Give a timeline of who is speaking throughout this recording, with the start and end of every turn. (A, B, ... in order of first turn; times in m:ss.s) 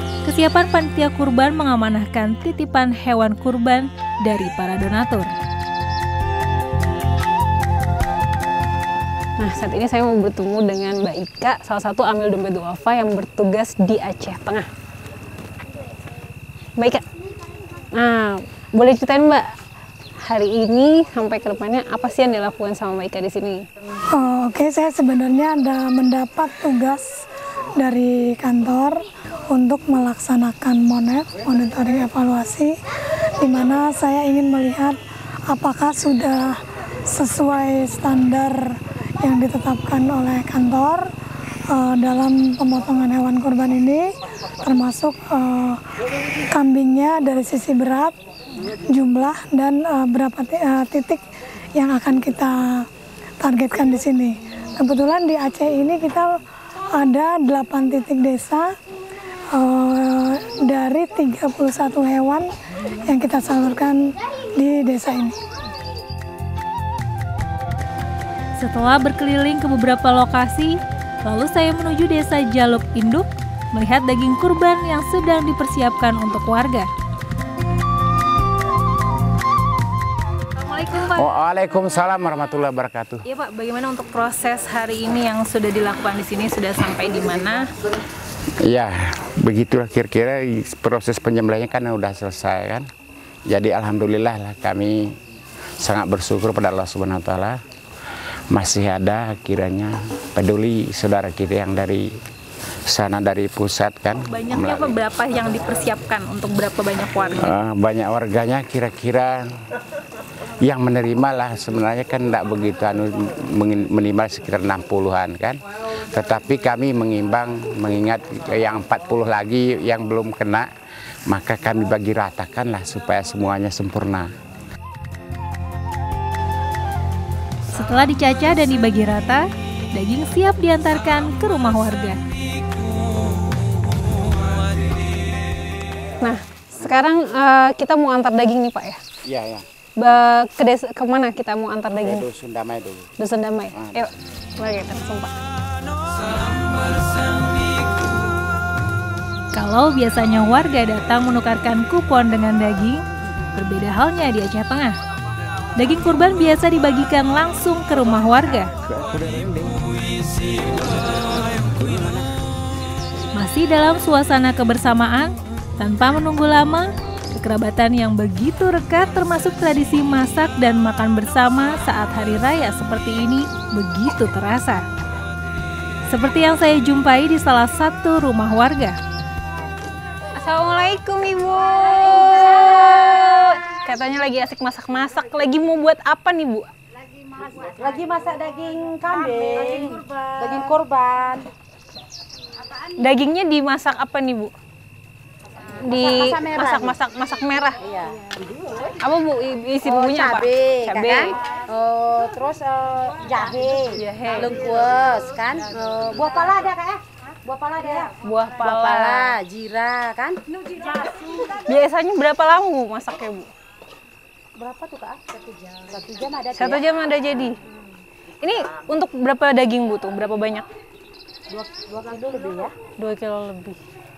0:00.3-0:05.3 A
0:09.4-0:14.7 B
0:18.0-0:19.4 B
0:20.3-0:23.6 B
0:24.2-0:27.1 C
0:27.8-0:29.0 C
0:29.5-0:32.7 C
0:33.4-0:35.0 C
0:35.5-0:36.6 C
0:37.1-0:41.0 C
0:41.7-0:44.1 C
0:44.6-0:45.8 C
0:46.5-0:48.1 C
0:48.9-0:51.2 C
0:51.8-0:52.9 C
0:53.4-0:56.4 C
0:56.9-0:58.7 C
0:59.5-1:02.5 C
1:03.0-1:04.0 C
1:04.6-1:05.4 C
1:08.6-1:16.9 A
1:21.1-1:23.2 D
1:23.4-1:26.8 A
1:26.2-1:27.6 B
1:28.7-1:32.9 D
1:33.5-1:35.0 D
1:35.8-1:37.6 D
1:38.5-1:42.1 D
1:42.9-1:45.0 D
1:44.4-1:47.5 B
1:47.4-1:49.4 D
1:50.6-2:00.7 D
2:01.3-2:04.3 D
2:07.7-2:12.2 A
2:16.2-2:19.0 B
2:19.2-2:19.6 D
2:20.0-2:22.2 B
2:22.0-2:23.1 D
2:23.2-2:25.3 B
2:23.7-2:24.1 D
2:29.6-2:33.0 A
2:33.6-2:34.9 A
2:35.8-2:38.7 A
2:39.2-2:39.8 D
2:43.4-2:54.8 A
2:56.1-2:59.0 A
3:00.4-3:06.7 B
3:07.6-3:11.5 E
3:09.5-3:09.9 B
3:13.0-3:14.5 B
3:15.8-3:17.8 B
3:16.0-3:16.8 E
3:19.0-3:21.4 B
3:19.9-3:28.1 E
3:23.5-3:24.8 B
3:28.0-3:29.4 B
3:28.8-3:30.4 E
3:31.5-3:33.5 B
3:34.6-3:36.8 E
3:36.5-3:37.6 B
3:38.4-3:40.7 B
3:41.5-3:42.7 E
3:43.0-3:43.8 B